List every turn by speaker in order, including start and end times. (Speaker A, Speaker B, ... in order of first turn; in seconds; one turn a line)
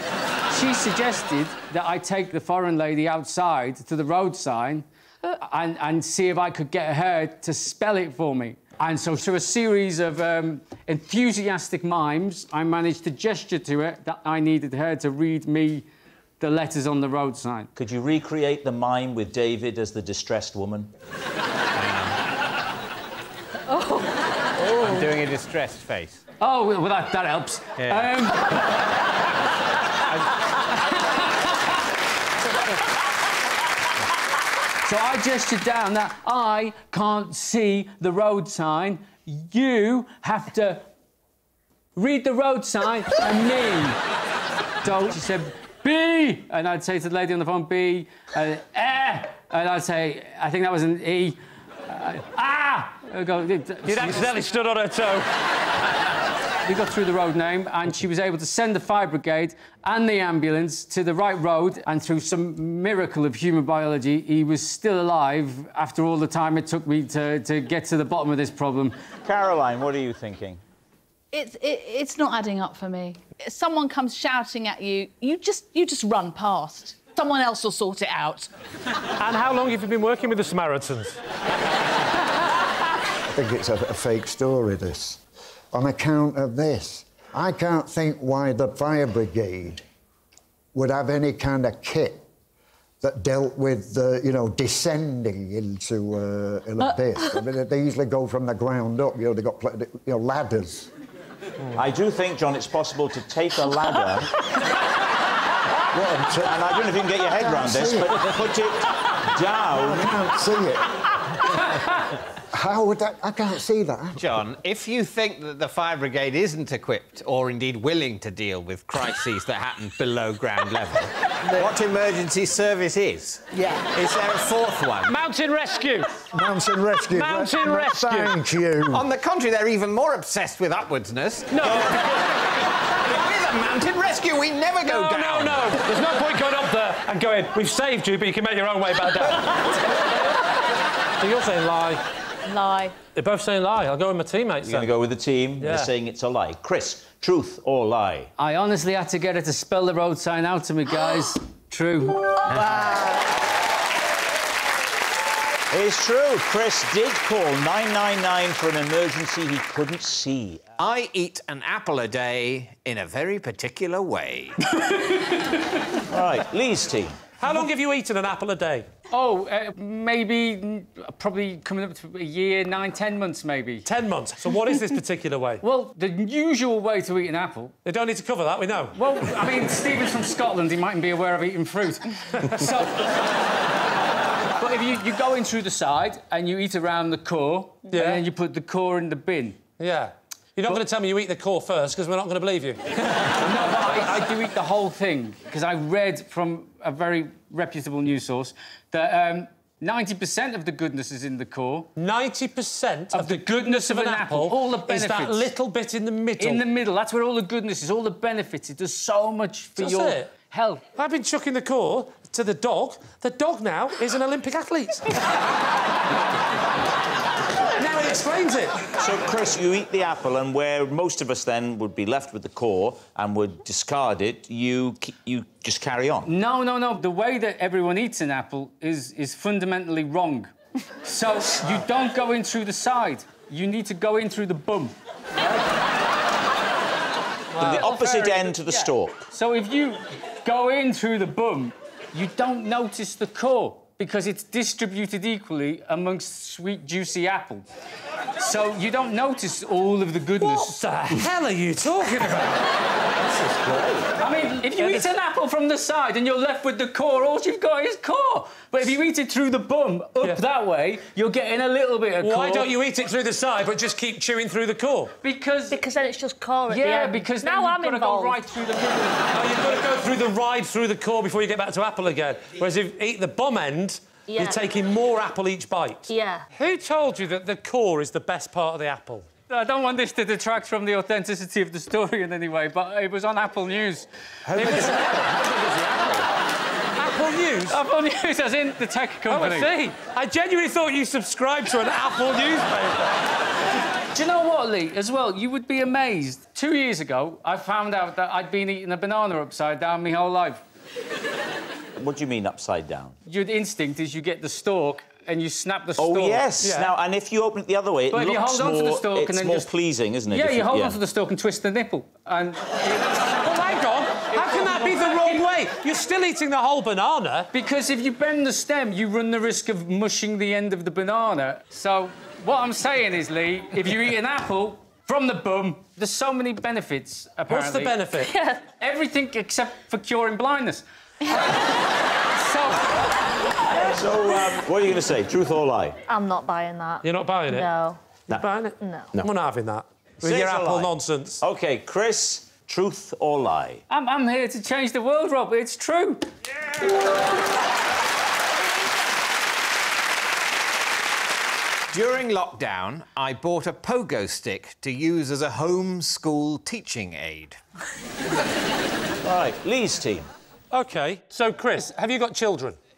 Speaker A: 0.5-15.8
Speaker A: 16.4-17.7
Speaker B: 17.8-20.9
Speaker C: 21.8-22.2
Speaker D: 23.8-24.1
Speaker C: 24.6-26.2
Speaker A: 26.4-28.8
Speaker C: 27.8-28.1
Speaker A: 34.8-40.9
Speaker A: 42.0-44.0
Speaker A: 44.8-54.3
Speaker E: 53.9-55.3
Speaker A: 56.6-69.0
Speaker B: 69.2-70.6
Speaker D: 71.3-78.5
Speaker E: 79.2-81.2
Speaker F: 83.3-85.2
Speaker F: 85.7-89.8
Speaker F: 90.7-92.2
Speaker F: 93.0-100.9
Speaker B: 101.7-104.4
Speaker F: 105.9-106.8
Speaker B: 106.5-110.1
Speaker F: 107.4-108.3
Speaker F: 109.8-111.8
Speaker F: 112.5-114.2
Speaker C: 114.2-125.1
Speaker A: 125.1-126.1
Speaker F: 126.3-129.1
Speaker E: 127.1-128.3
Speaker C: 128.9-135.7
Speaker E: 131.6-131.9
Speaker E: 134.8-139.8
Speaker E: 141.2-142.0
Speaker D: 142.5-142.9
Speaker E: 143.2-145.0
Speaker B: 144.6-148.3
Speaker E: 145.6-145.9
Speaker A: 148.4-152.4
Speaker C: 152.5-152.8
Speaker B: 155.7-160.6
Speaker C: 160.8-164.6
Speaker A: 164.8-165.6
Speaker B: 166.1-167.2
Speaker E: 167.4-168.9
Speaker A: 169.1-173.9
Speaker E: 173.9-175.6
Speaker A: 175.6-177.8
Speaker E: 177.8-179.4
Speaker A: 179.0-183.2
Speaker E: 182.4-182.7
Speaker A: 184.6-189.6
Speaker E: 187.9-188.2
Speaker E: 189.8-193.5
Speaker A: 193.4-201.9
Speaker E: 202.0-206.6
Speaker A: 203.1-205.5
Speaker A: 206.4-210.8
Speaker E: 209.8-210.3
Speaker E: 211.0-215.2
Speaker E: 217.8-218.9
Speaker B: 219.0-226.3
Speaker A: 226.2-230.5
Speaker A: 231.0-234.9
Speaker E: 237.5-237.9
Speaker A: 237.6-247.6
Speaker B: 237.7-239.2
Speaker A: 248.4-250.8
Speaker E: 250.4-253.6
Speaker B: 253.6-254.0
Speaker A: 254.2-262.7
Speaker E: 254.8-255.1
Speaker E: 262.2-265.1
Speaker A: 265.2-265.9
Speaker G: 265.7-268.4
Speaker A: 266.7-269.6
Speaker E: 269.3-279.3
Speaker G: 274.3-274.6
Speaker G: 276.1-276.4
Speaker A: 279.5-284.1
Speaker B: 284.5-286.1
Speaker E: 284.5-285.3
Speaker E: 287.0-287.8
Speaker A: 287.7-289.7
Speaker E: 289.3-293.1
Speaker A: 294.1-300.6
Speaker B: 302.0-303.2
Speaker A: 303.3-306.4
Speaker B: 306.0-311.0
Speaker E: 306.6-306.9
Speaker A: 308.1-309.7
Speaker A: 310.3-313.4
Speaker E: 313.3-317.5
Speaker A: 314.3-315.2
Speaker A: 317.5-328.0
Speaker E: 327.5-328.3
Speaker G: 328.2-328.6
Speaker A: 328.8-333.1
Speaker B: 333.7-336.0
Speaker G: 336.1-338.0
Speaker E: 337.0-337.7
Speaker E: 338.3-341.4
Speaker G: 338.8-339.1
Speaker B: 340.2-343.8
Speaker A: 343.9-346.2
Speaker C: 351.9-357.6
Speaker B: 359.2-360.3
Speaker E: 360.7-362.8